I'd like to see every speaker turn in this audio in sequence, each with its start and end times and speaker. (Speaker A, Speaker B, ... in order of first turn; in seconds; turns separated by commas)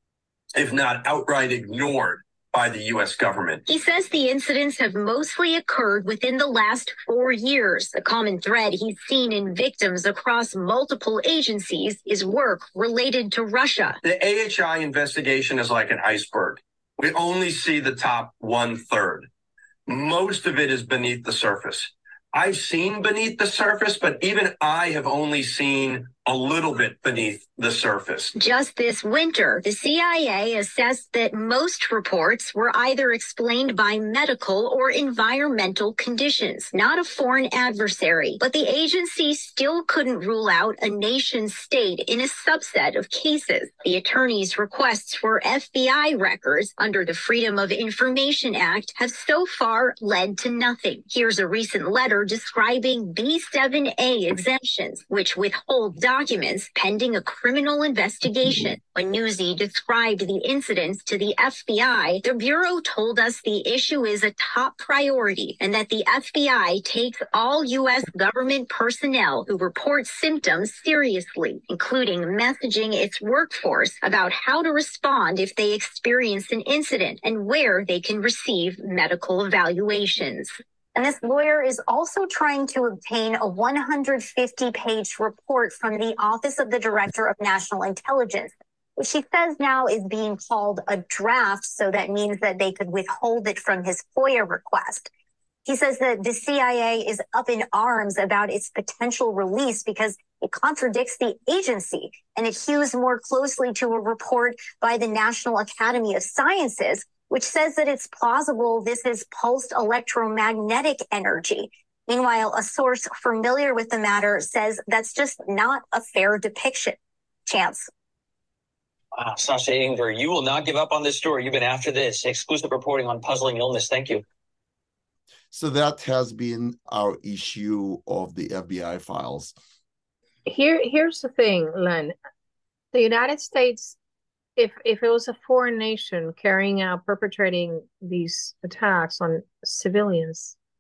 Speaker A: 0.6-3.6, Speaker B: 3.7-14.0, Speaker A: 14.0-19.3, Speaker A: 19.9-28.4, Speaker B: 28.4-95.1, Speaker B: 95.7-117.9, Speaker C: 119.2-124.2, Speaker D: 125.5-129.5, Speaker E: 130.5-132.1, Speaker E: 132.9-134.0, Speaker E: 134.6-140.6